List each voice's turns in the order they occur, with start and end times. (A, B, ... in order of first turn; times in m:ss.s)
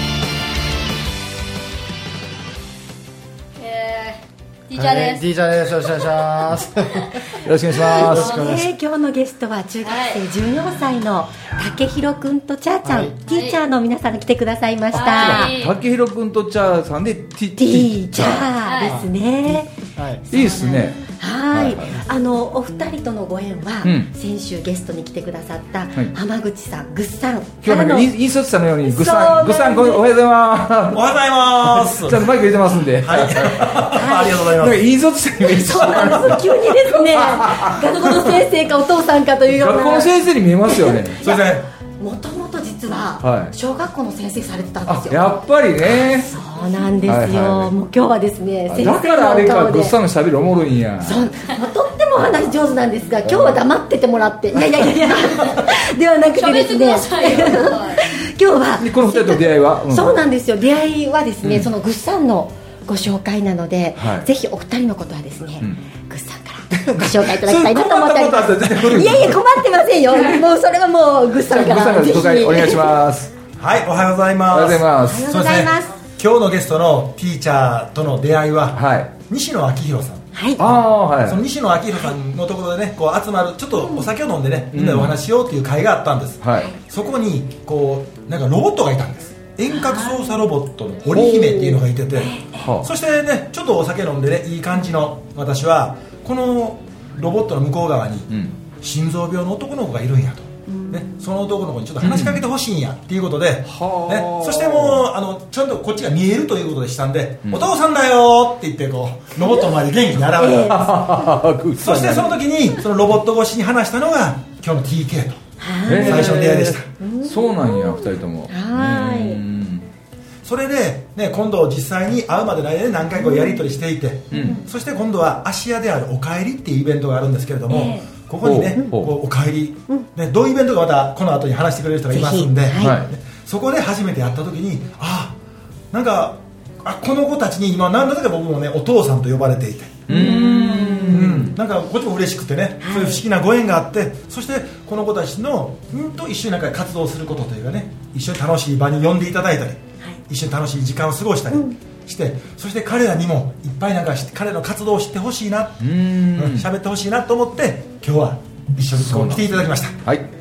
0:03.6-0:05.2 A
0:04.7-0:08.7 B
0:06.8-0:07.1 A
0:07.4-0:08.4 C
0:07.8-0:08.6 A
0:08.2-0:15.7 D
0:09.8-0:10.2 A
0:12.8-0:13.2 B
0:13.3-0:13.6 A
0:14.9-0:15.8 A
0:14.9-0:18.6 C
0:17.6-0:19.7 D
0:18.6-0:19.0 A
0:18.8-0:20.3 B
0:20.3-0:22.0 C
0:20.3-0:28.1 D
0:23.8-0:24.1 C
0:27.6-0:38.4 C
0:28.8-0:30.1 D
0:30.9-0:34.9 E
0:33.9-0:34.3 D
0:35.4-0:50.0 D
0:39.5-0:41.2 C
0:41.2-0:41.6 E
0:43.2-0:43.5 C
0:44.8-0:46.3 C
0:46.6-0:47.0 A
0:47.0-0:47.7 C
0:48.7-0:51.2 C
0:51.0-1:13.0 D
0:53.2-0:53.6 C
0:56.3-0:58.2 A
0:58.8-1:00.2 C
1:01.4-1:01.7 C
1:04.0-1:04.3 C
1:06.8-1:09.6 C
1:11.4-1:13.3 C
1:13.6-1:20.3 E
1:14.5-1:15.3 C
1:15.0-1:16.0 D
1:18.7-1:19.2 C
1:20.3-1:20.7 D
1:20.6-1:21.4 C
1:21.2-1:50.9 E
1:23.8-1:24.1 D
1:24.7-1:25.2 C
1:26.4-1:26.8 C
1:29.7-1:30.5 D
1:31.1-1:31.8 C
1:32.1-1:32.7 D
1:32.5-1:32.9 C
1:38.3-1:38.5 C
1:40.7-1:41.2 D
1:42.0-1:42.4 C
1:43.6-1:45.0 C
1:50.4-1:51.4 D
1:50.7-1:52.4 C
1:51.8-1:56.9 E
1:55.6-1:56.4 D
1:55.8-1:59.9 C
1:57.0-1:59.4 D
2:00.4-2:15.4 E
2:03.2-2:03.7 D
2:04.3-2:04.6 C
2:04.3-2:04.7 D
2:07.7-2:08.9 D
2:08.4-2:09.1 C
2:12.1-2:13.0 D
2:12.8-2:13.1 C
2:15.9-2:20.2 E
2:20.1-2:21.6 C
2:20.1-2:21.4 D
2:21.1-2:40.0 E
2:22.8-2:23.2 D
2:31.5-2:31.8 D
2:35.8-2:36.7 C
2:39.0-2:40.2 C